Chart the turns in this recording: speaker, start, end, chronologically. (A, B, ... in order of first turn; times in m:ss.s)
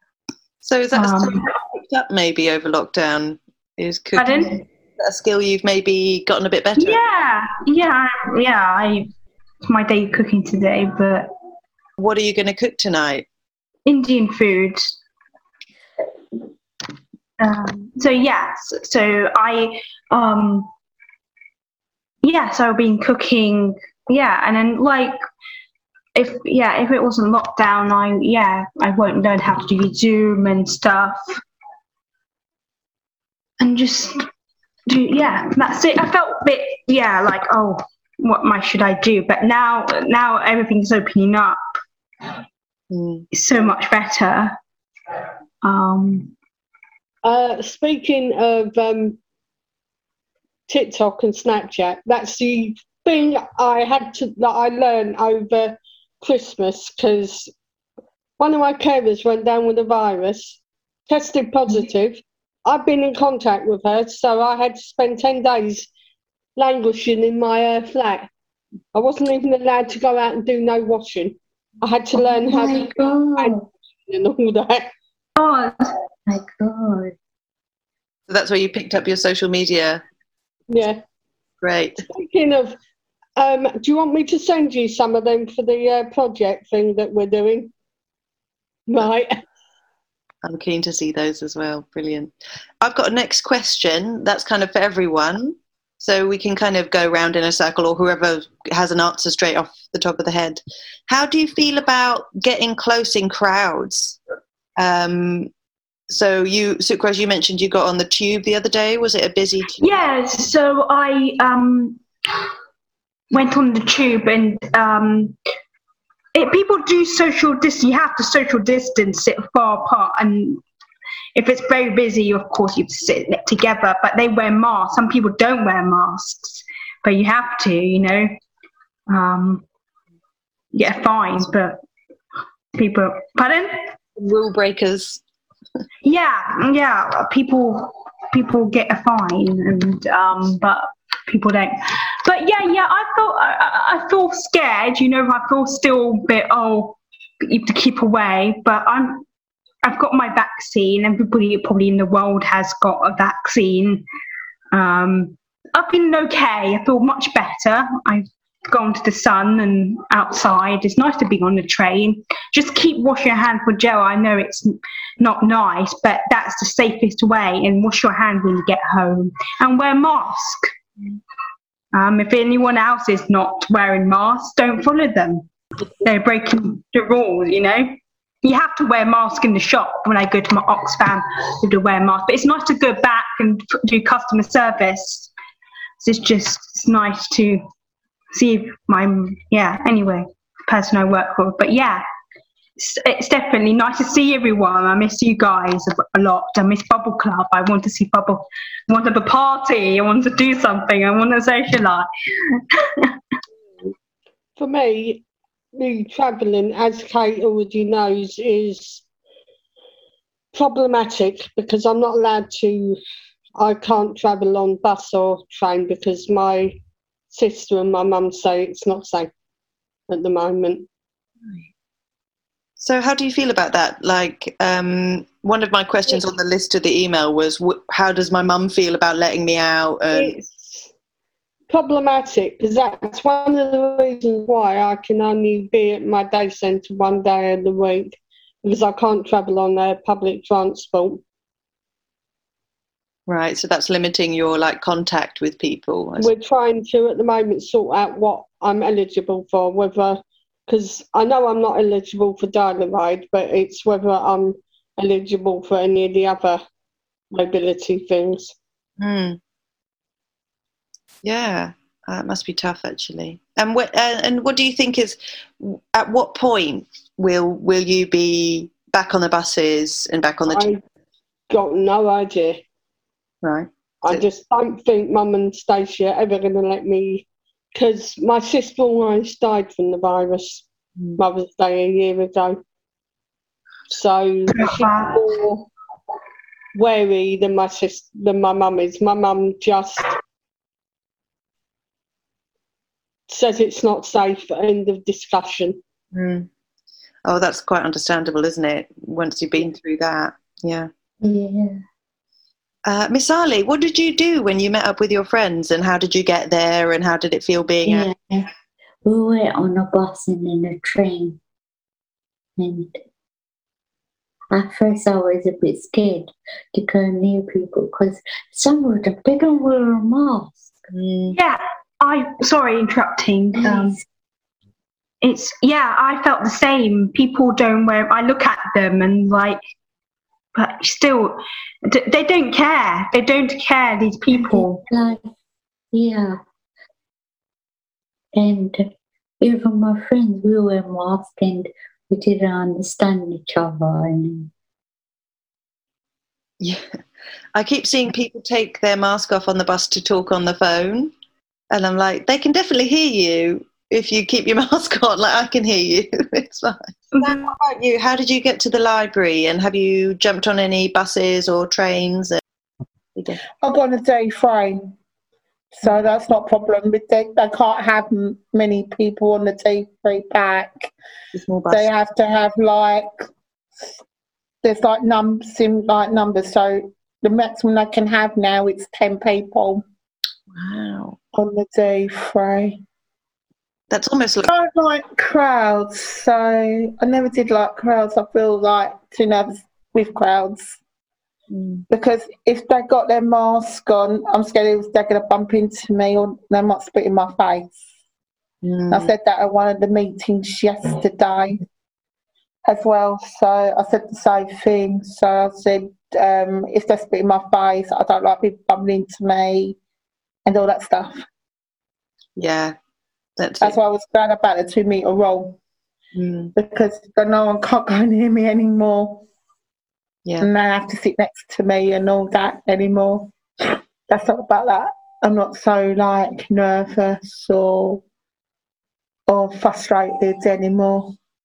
0:00.6-0:07.0 A
0:00.9-0:01.5 B
0:04.2-0:04.6 B
0:06.8-0:09.1 B
0:09.6-0:11.3 B
0:12.0-0:13.3 A
0:13.9-0:14.9 B
0:17.4-0:20.7 B
0:22.2-0:25.2 B
0:26.2-0:31.4 B
0:33.6-0:34.2 B
0:34.9-0:41.6 B
0:42.9-0:43.3 A
0:43.3-0:44.6 B
0:45.6-0:46.3 B
0:47.2-0:49.2 C
0:50.7-0:57.5 C
0:58.4-1:05.9 C
1:06.6-1:08.3 C
1:08.9-1:14.9 C
1:12.1-1:13.7 D
1:15.4-1:15.9 B
1:16.3-1:17.2 D
1:18.3-1:20.0 A
1:20.7-1:21.0 C
1:21.6-1:22.0 A
1:22.0-1:22.8 C
1:23.4-1:27.7 C
1:28.9-1:29.4 C
1:30.4-1:44.2 A
1:44.8-1:45.5 A
1:46.1-1:50.0 A
1:49.8-1:52.0 B
1:53.3-1:55.4 B
1:56.3-2:00.6 B
2:01.4-2:08.4 B
2:09.1-2:09.6 B
2:10.7-2:11.8 B
2:12.8-2:13.9 B
2:14.2-2:15.2 A
2:16.0-2:29.2 B
2:29.8-2:34.0 B
2:34.7-2:50.7 B
2:51.9-3:05.3 B
3:06.0-3:07.6 B
3:08.3-3:12.0 B
3:12.8-3:22.1 B
3:24.6-3:25.2 C
3:25.7-3:29.0 C
3:30.5-3:33.0 C
3:33.6-3:36.8 C
3:37.3-3:39.3 C
3:40.1-3:40.9 C
3:42.8-3:50.4 A
3:50.1-3:50.9 C
3:51.7-4:01.2 C
4:03.3-4:06.3 A
4:06.2-4:16.6 C
4:17.3-4:18.6 C
4:19.0-4:19.4 A
4:21.2-4:30.8 A
4:30.5-4:30.8 C
4:31.5-4:32.6 C
4:33.4-4:34.2 A
4:34.0-4:40.6 C
4:41.2-4:42.6 C
4:43.9-4:45.7 C
4:44.5-4:45.2 B
4:46.8-4:50.2 C
4:53.3-4:55.8 C
4:56.1-4:56.5 A
4:57.2-5:00.9 A
5:01.2-5:01.8 D
5:02.9-5:08.1 A
5:07.8-5:08.5 D
5:09.0-5:11.4 D
5:12.6-5:13.0 D
5:14.5-5:20.9 D
5:20.9-5:21.4 A
5:21.3-5:24.0 B
5:23.6-5:24.0 D
5:25.2-5:29.6 B
5:30.6-5:34.8 B
5:34.3-5:35.3 D
5:35.9-5:36.4 D
5:38.3-5:38.9 D
5:39.4-5:44.5 D
5:46.6-5:47.0 A
5:47.6-5:51.1 A
5:51.7-6:02.4 A
5:57.2-5:57.5 B
6:03.2-6:03.4 A
6:03.6-6:05.0 E
6:05.8-6:10.9 E
6:11.3-6:11.9 A
6:11.7-6:13.3 E
6:14.6-6:19.8 E
6:20.5-6:21.2 A
6:21.3-6:22.8 E
6:23.9-6:24.5 A
6:24.5-6:30.8 E
6:31.5-6:31.8 A
6:31.9-6:37.8 E
6:38.6-6:39.1 A
6:38.9-6:41.6 E
6:42.6-6:49.8 E
6:50.4-6:51.2 E
6:52.4-6:52.8 A
6:53.4-6:53.8 A
6:53.6-6:55.6 E
6:56.1-6:56.5 A
6:56.6-6:59.2 E
7:00.4-7:08.0 E
7:09.3-7:11.2 E